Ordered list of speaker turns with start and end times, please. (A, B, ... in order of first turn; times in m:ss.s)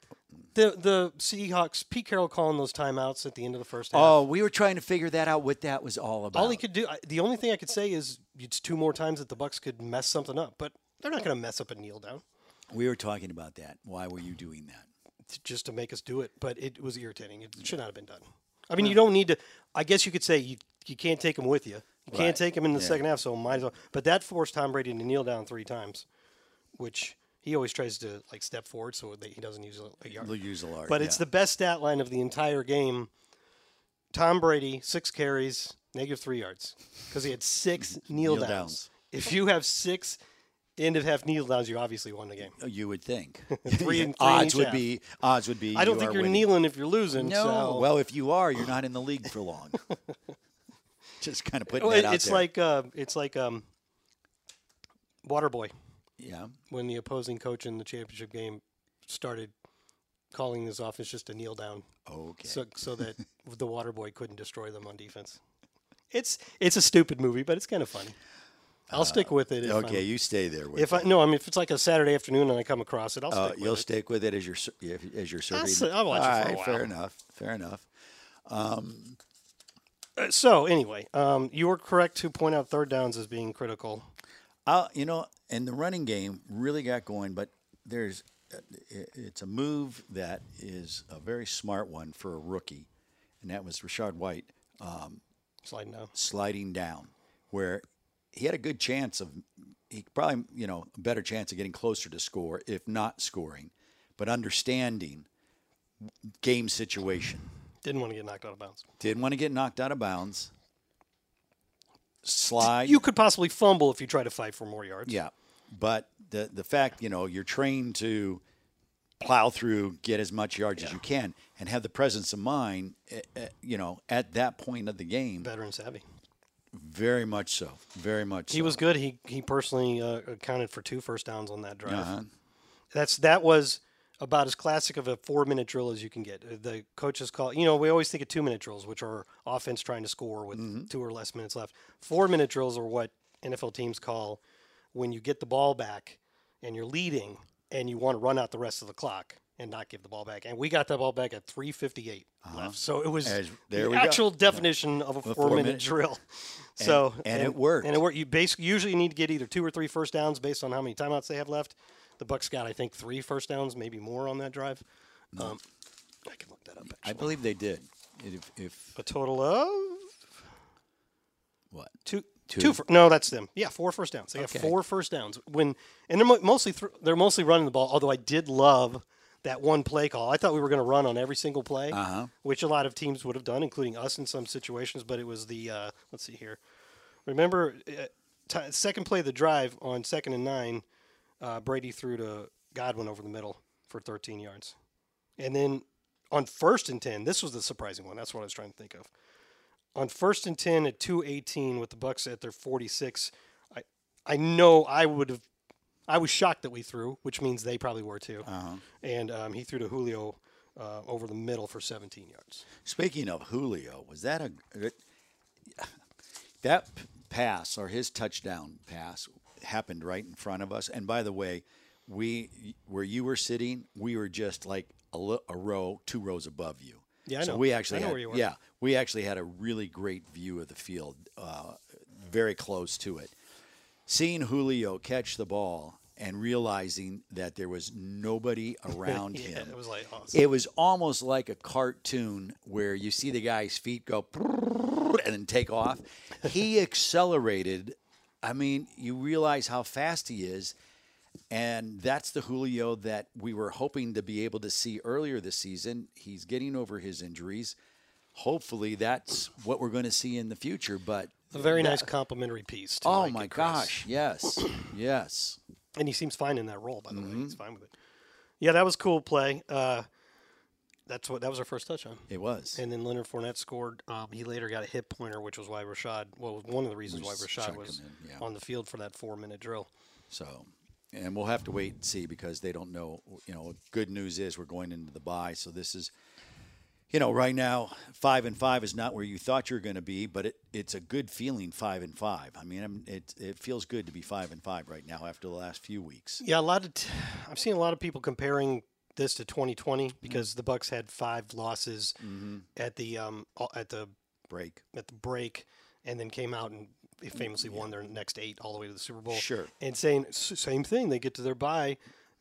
0:00.5-0:04.2 A
0:03.9-0:06.6 B
0:06.3-0:12.2 A
0:12.7-0:14.9 B
0:15.3-0:26.1 A
0:22.1-0:23.0 B
0:26.8-0:30.3 A
0:30.2-0:31.2 B
0:30.9-0:33.1 A
0:34.1-0:40.2 A
0:37.8-0:38.9 B
0:40.8-0:42.6 A
0:42.5-0:46.5 B
0:43.5-0:44.8 A
0:45.7-0:47.9 A
0:47.2-0:49.8 B
0:51.2-0:52.5 B
0:51.7-0:53.7 A
0:55.2-0:55.7 A
0:56.2-0:56.5 B
0:56.7-0:59.5 A
1:00.3-1:01.9 A
1:02.1-1:02.6 B
1:02.4-1:05.4 A
1:06.1-1:08.2 A
1:08.9-1:11.1 B
1:08.9-1:10.1 A
1:10.8-1:13.9 A
1:13.3-1:17.9 B
1:15.5-1:16.9 A
1:18.4-1:19.2 B
1:20.2-1:24.1 A
1:24.7-1:32.9 B
1:33.4-1:35.2 B
1:35.6-1:36.1 A
1:36.2-1:45.3 B
1:46.0-1:47.4 B
1:47.8-1:48.8 A
1:49.0-1:50.5 B
1:52.2-1:53.0 B
1:52.6-1:55.2 A
1:55.1-1:58.4 B
1:59.2-2:05.5 B
2:05.4-2:06.0 A
2:06.7-2:08.8 B
2:08.5-2:12.1 A
2:11.9-2:12.3 B
2:12.9-2:24.4 A
2:20.5-2:20.9 B
2:24.9-2:44.8 A
2:32.4-2:34.7 B
2:35.2-2:35.9 B
2:36.8-2:38.0 B
2:45.4-2:45.6 A
2:46.2-2:47.3 A
2:46.8-2:49.0 B
2:49.0-2:50.2 A
2:51.7-2:52.0 B
2:52.0-3:06.6 A
2:52.5-2:52.8 B
2:54.4-2:54.7 B
3:01.9-3:02.3 B
3:07.3-3:10.8 A
3:11.4-3:14.8 A
3:15.4-3:19.1 A
3:20.0-3:25.5 A
3:26.1-3:28.5 A
3:28.5-3:28.8 B
3:29.0-3:32.7 A
3:32.8-3:35.0 B
3:35.7-3:35.9 B
3:36.6-3:53.3 B
3:47.3-3:48.5 A
3:54.1-3:59.8 B
3:59.0-4:00.4 A
4:00.3-4:10.8 B
4:11.5-4:17.8 B
4:18.3-4:22.1 B
4:21.5-4:24.1 A
4:23.0-4:25.6 B
4:26.0-4:27.9 A
4:27.1-4:27.6 B
4:28.6-4:30.1 A
4:31.1-4:39.9 A
4:32.3-4:32.8 B
4:37.1-4:38.4 B
4:40.3-4:46.1 B
4:47.1-4:56.4 B
4:56.4-5:02.2 A
5:02.2-5:02.7 B
5:02.8-5:04.1 A
5:04.5-5:04.8 B
5:04.9-5:12.0 A
5:07.6-5:07.9 B
5:09.3-5:09.7 B